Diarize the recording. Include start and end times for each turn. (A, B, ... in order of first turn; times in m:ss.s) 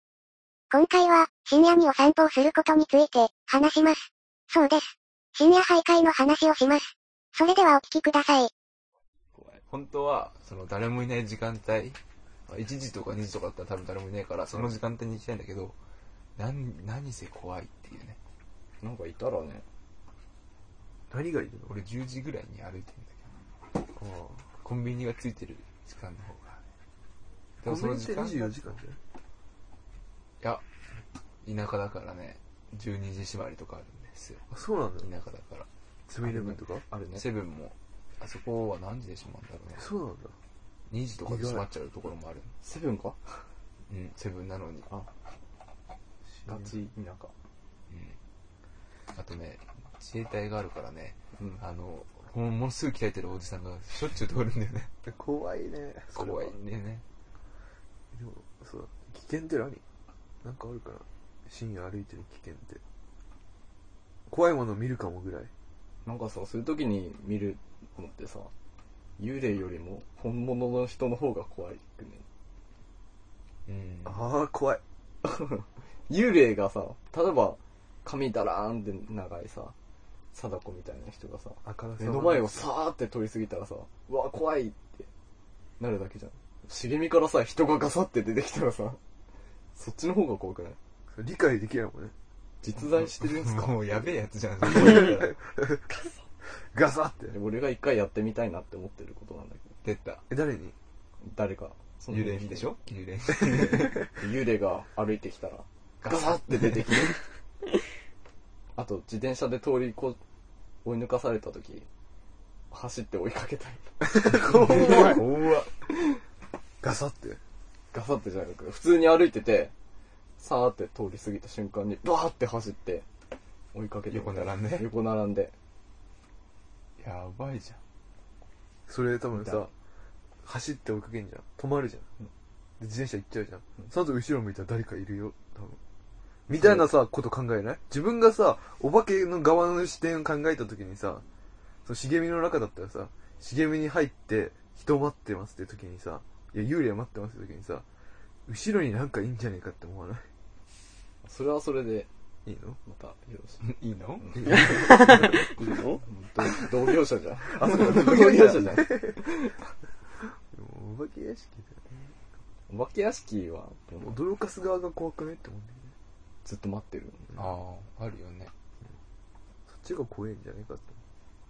0:00.7-0:08.5 A
0:09.7-0:15.8 B
0:14.5-0:14.8 C
0:16.4-0:18.2 B
0:18.8-0:19.6 D
0:21.1-0:21.8 C
0:21.6-0:23.3 B
0:23.8-0:24.6 C
0:24.6-0:26.6 B
0:27.6-0:28.7 B
0:27.6-0:29.0 C
0:31.4-0:34.4 B
0:34.5-0:35.1 C
0:35.0-0:35.7 B
0:36.1-0:36.9 C
0:36.2-0:37.3 D
0:37.2-0:39.8 B
0:39.8-0:40.4 C
0:40.9-0:42.5 B
0:41.2-0:41.7 C
0:42.6-0:43.4 D
0:43.9-0:44.9 B
0:46.3-0:46.7 C
0:46.5-0:47.3 D
0:47.9-0:48.2 B
0:49.1-0:55.0 B
0:51.4-0:51.6 D
0:55.0-0:56.6 C
0:56.2-0:57.0 B
0:58.1-0:59.8 C
1:00.4-1:02.8 C
1:04.3-1:05.5 C
1:06.0-1:08.5 D
1:09.2-1:12.2 D
1:13.7-1:14.2 B
1:14.0-1:14.8 C
1:15.2-1:19.8 D
1:20.3-1:25.1 D
1:21.6-1:22.7 C
1:25.8-1:29.0 D
1:29.8-1:30.8 D
1:31.1-1:32.1 C
1:32.6-1:34.1 D
1:32.8-1:35.4 B
1:34.6-1:35.9 C
1:36.7-1:37.4 C
1:37.3-1:39.7 D
1:39.8-1:40.2 B
1:40.3-1:40.8 C
1:41.2-1:42.8 D
1:42.1-1:44.1 B
1:43.4-1:47.2 D
1:46.0-1:47.1 B
1:48.8-1:50.2 D
1:50.8-1:51.9 D
1:52.7-1:56.2 D
1:54.2-1:55.2 C
1:54.7-1:55.2 B
1:56.8-1:57.4 C
1:57.9-1:59.7 D
2:00.4-2:03.0 D
2:03.7-2:05.5 D
2:04.1-2:04.9 B
2:07.0-2:07.8 B
2:08.9-2:09.7 C
2:10.4-2:12.1 C
2:12.8-2:15.8 C
2:16.5-2:21.2 C
2:21.9-2:27.8 C
2:28.5-2:30.3 C
2:31.2-2:32.1 D
2:32.5-2:32.8 C
2:32.8-2:33.7 D
2:33.6-2:36.0 B
2:34.2-2:39.6 D
2:37.4-2:39.6 C
2:40.2-2:42.1 C
2:42.7-2:44.2 D
2:44.0-2:45.9 C
2:46.4-2:47.5 D
2:47.4-2:48.5 B
2:49.7-2:51.0 C